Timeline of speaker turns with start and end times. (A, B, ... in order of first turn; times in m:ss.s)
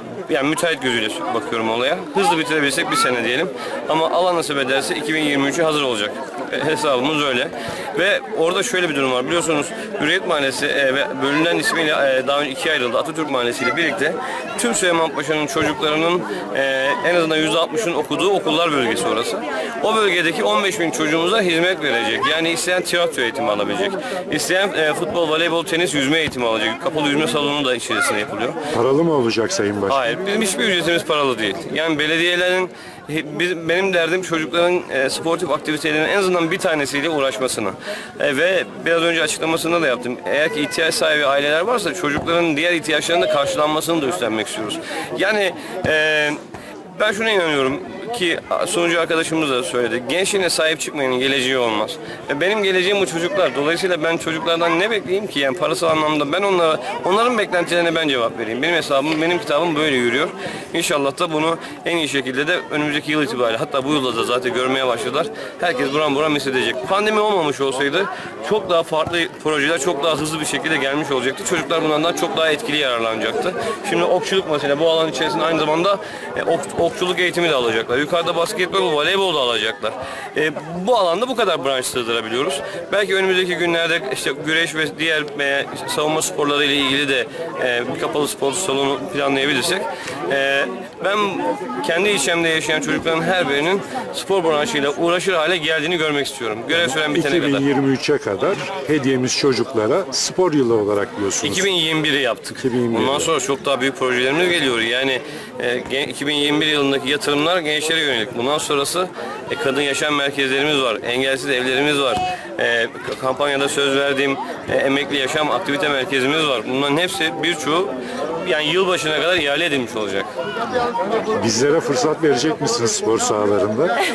0:00.2-0:28.6 A
0:28.7-0:30.0 B
0:29.9-0:46.4 A
0:46.9-1:37.6 A
1:36.8-1:41.7 B
1:41.4-2:00.3 A
1:42.6-1:43.3 B
2:01.3-2:03.9 B